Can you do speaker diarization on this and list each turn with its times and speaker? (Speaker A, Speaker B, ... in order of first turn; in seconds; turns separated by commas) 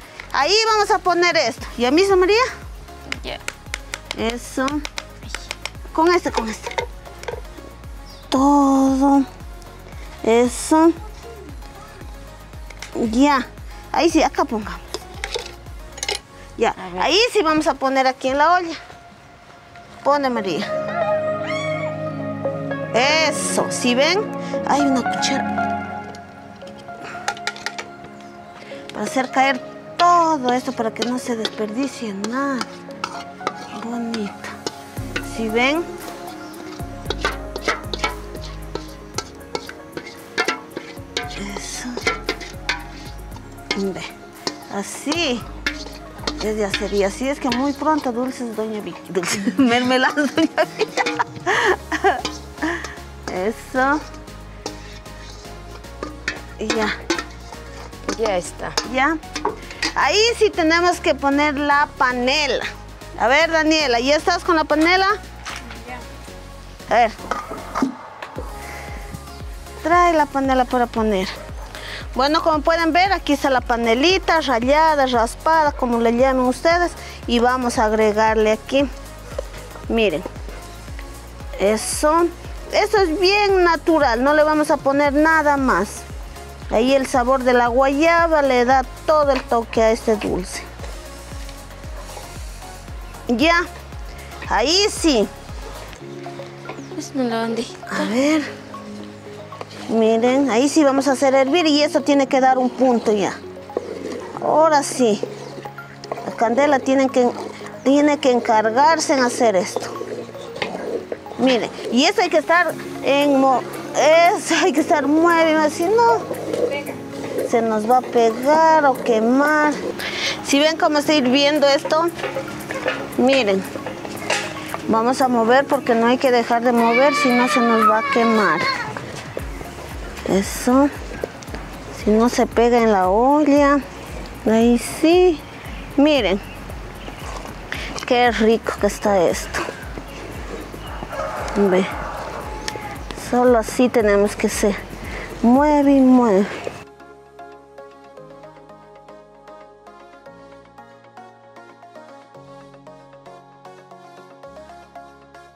Speaker A: 0.3-2.4, Speaker A: 4.1-4.8, Speaker A: 5.9-6.7, Speaker A: 8.3-9.3, Speaker A: 10.2-10.9, Speaker A: 12.9-15.0, Speaker A: 16.6-18.8, Speaker B: 16.8-17.1, Speaker A: 20.0-20.7, Speaker A: 22.9-25.5, Speaker A: 28.9-32.7, Speaker A: 33.7-34.5, Speaker A: 35.2-35.9, Speaker A: 41.3-42.0, Speaker A: 43.7-44.1, Speaker A: 44.7-45.4, Speaker A: 46.4-54.0, Speaker A: 56.6-56.9, Speaker B: 58.1-58.8, Speaker A: 58.8-59.2, Speaker A: 60.0-62.7, Speaker A: 63.2-65.2, Speaker A: 66.9-67.2, Speaker A: 69.8-71.3, Speaker A: 72.1-78.9, Speaker A: 79.9-80.2, Speaker A: 81.6-86.0, Speaker A: 86.7-90.7, Speaker A: 93.3-93.7, Speaker A: 94.5-95.3, Speaker B: 96.9-98.2, Speaker A: 97.9-98.5, Speaker A: 99.9-103.4, Speaker A: 104.4-105.2, Speaker A: 106.2-109.9, Speaker A: 111.4-116.2, Speaker A: 117.4-119.8, Speaker A: 120.4-122.1, Speaker A: 123.2-123.6, Speaker A: 124.9-128.6, Speaker A: 130.2-130.9, Speaker A: 131.9-133.8, Speaker A: 134.4-135.4, Speaker A: 136.0-136.4, Speaker A: 138.0-139.6, Speaker A: 141.5-141.9, Speaker A: 143.1-144.8, Speaker A: 145.4-146.5